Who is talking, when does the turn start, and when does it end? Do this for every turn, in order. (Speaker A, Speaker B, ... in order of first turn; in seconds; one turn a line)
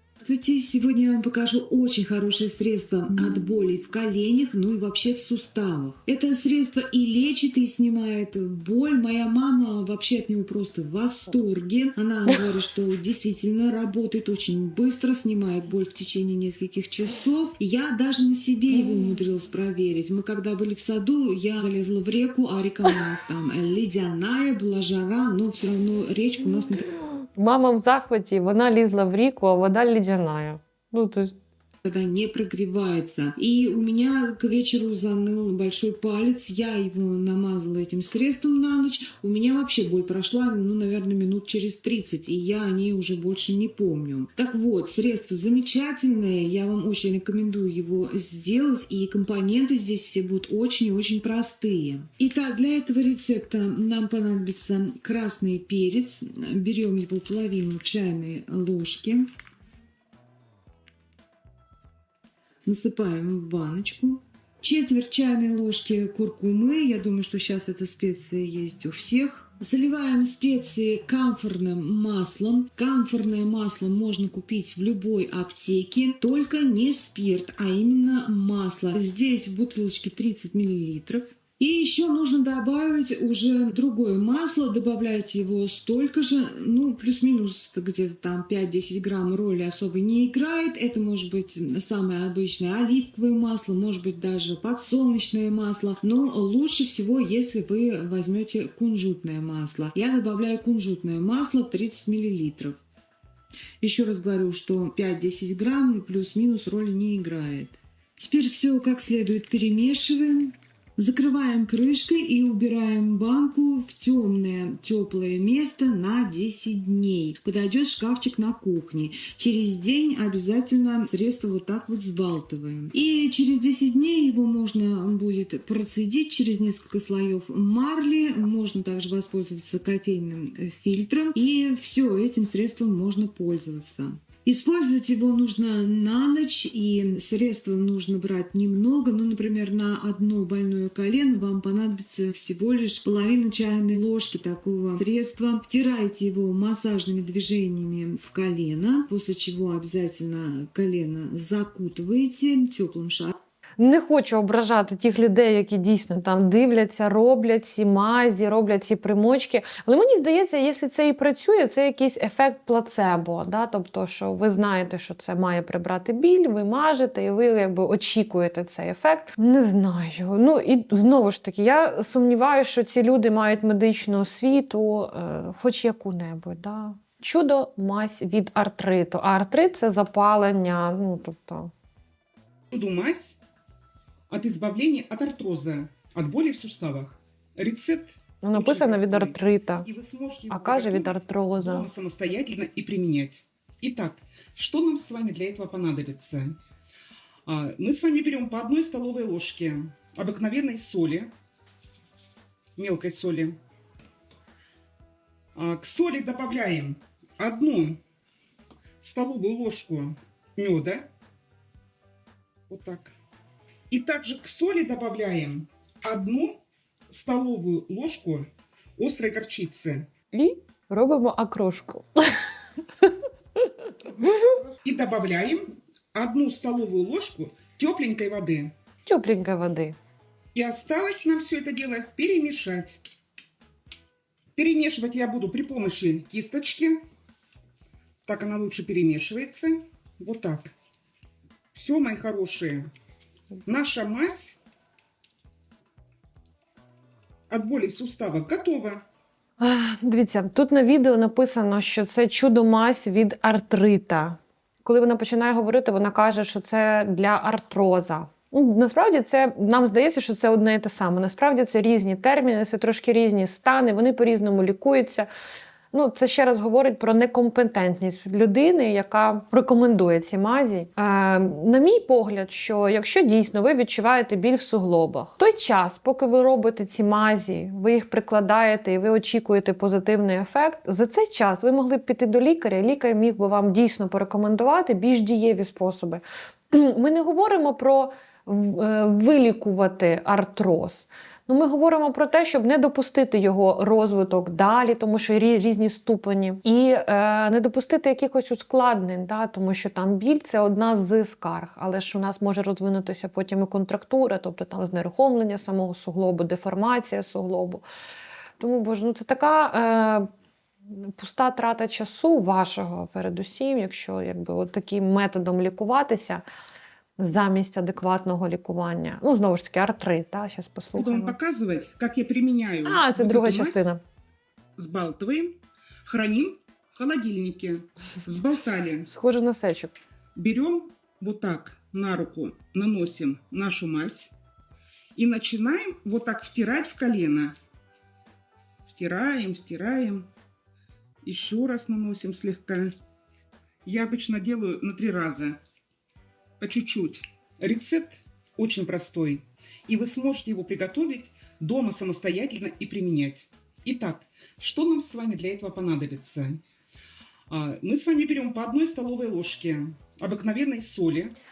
Speaker A: 0.2-26.9
Speaker B: 27.4-31.3
Speaker A: 31.8-59.3
Speaker A: 62.6-102.8
Speaker A: 103.8-153.3
Speaker B: 153.8-181.7
Speaker C: 182.7-183.3
Speaker C: 184.3-196.6
Speaker B: 188.4-189.9
Speaker B: 190.5-191.9
Speaker C: 197.5-201.3
Speaker C: 202.8-203.6
Speaker C: 205.5-208.0
Speaker C: 209.0-211.1
Speaker C: 212.7-213.1
Speaker C: 213.9-220.1
Speaker B: 220.3-222.1
Speaker C: 224.8-228.7
Speaker B: 229.1-229.9
Speaker C: 230.5-233.0
Speaker C: 234.6-237.0
Speaker C: 238.2-240.7
Speaker C: 241.7-242.9
Speaker C: 243.7-244.6
Speaker C: 247.5-249.0
Speaker B: 249.6-265.3
Speaker B: 265.9-307.8
Speaker B: 308.6-310.3
Speaker B: 310.9-316.4
Speaker B: 317.2-321.4
Speaker C: 320.9-323.9
Speaker B: 322.8-324.0
Speaker C: 324.8-329.1
Speaker B: 329.0-329.9
Speaker C: 330.3-334.3
Speaker C: 335.1-337.6
Speaker C: 338.9-340.3
Speaker C: 341.2-342.9
Speaker C: 343.8-345.6
Speaker C: 346.6-356.6
Speaker C: 357.5-361.3